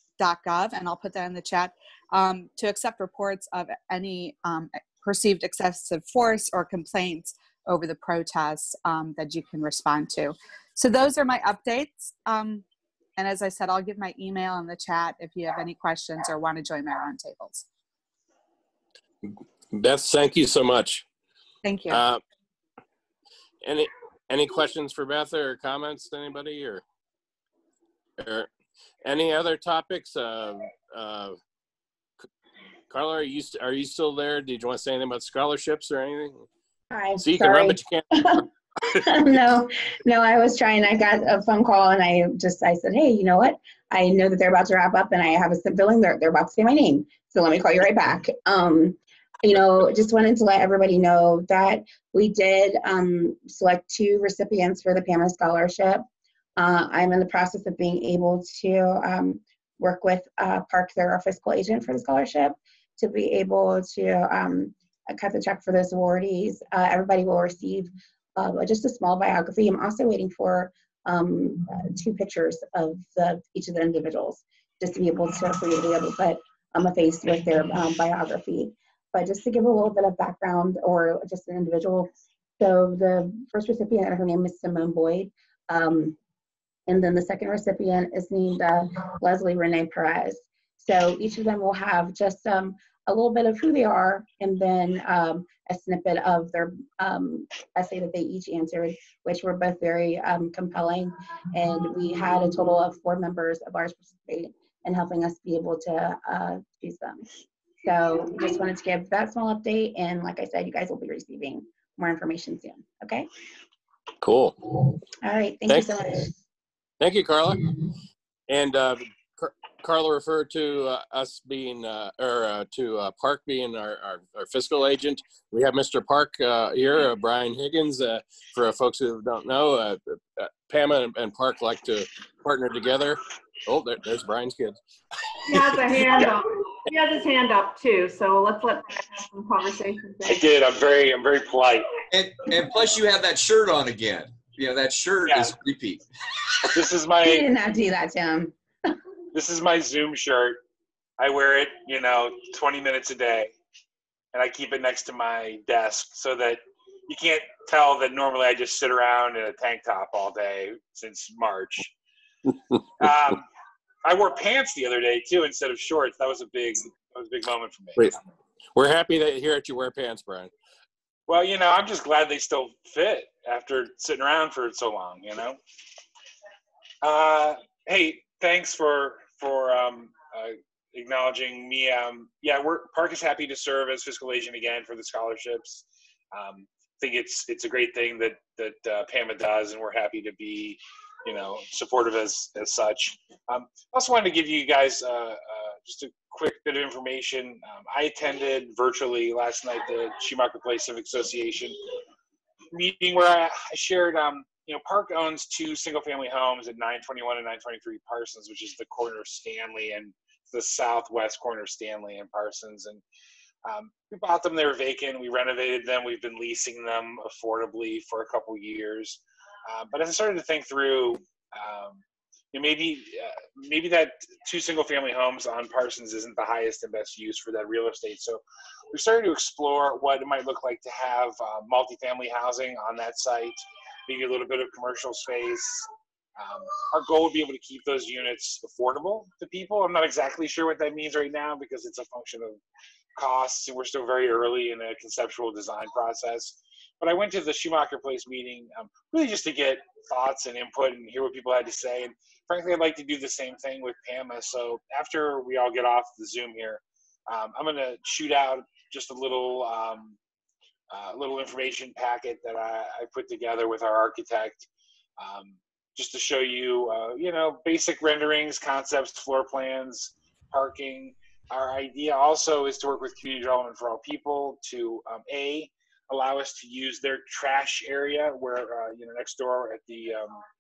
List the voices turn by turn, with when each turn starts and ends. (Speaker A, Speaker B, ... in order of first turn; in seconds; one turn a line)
Speaker A: 0.2-12.6
Speaker A: 13.2-17.6
Speaker B: 19.2-21.0
Speaker A: 21.6-22.0
Speaker B: 21.9-22.2
Speaker B: 23.6-26.8
Speaker B: 28.2-28.5
Speaker B: 29.0-31.4
Speaker B: 32.9-36.5
Speaker C: 36.9-38.4
Speaker B: 37.2-39.2
Speaker C: 39.0-56.0
Speaker C: 56.6-82.1
Speaker C: 82.6-86.2
Speaker C: 86.9-107.2
Speaker C: 107.8-113.3
Speaker B: 114.2-114.6
Speaker C: 115.2-116.3
Speaker B: 117.0-117.7
Speaker B: 118.5-134.8
Speaker D: 135.5-140.4
Speaker E: 140.2-141.9
Speaker F: 142.1-146.0
Speaker E: 145.2-145.6
Speaker E: 146.7-147.4
Speaker C: 147.2-148.5
Speaker E: 149.3-150.6
Speaker E: 151.2-153.5
Speaker E: 154.3-161.9
Speaker E: 163.0-163.4
Speaker E: 164.0-168.1
Speaker B: 168.8-170.5
Speaker E: 171.3-175.6
Speaker E: 177.0-201.8
Speaker E: 202.7-213.0
Speaker E: 213.6-222.0
Speaker E: 222.5-242.6
Speaker E: 243.2-260.2
Speaker E: 260.9-264.7
Speaker E: 265.2-280.4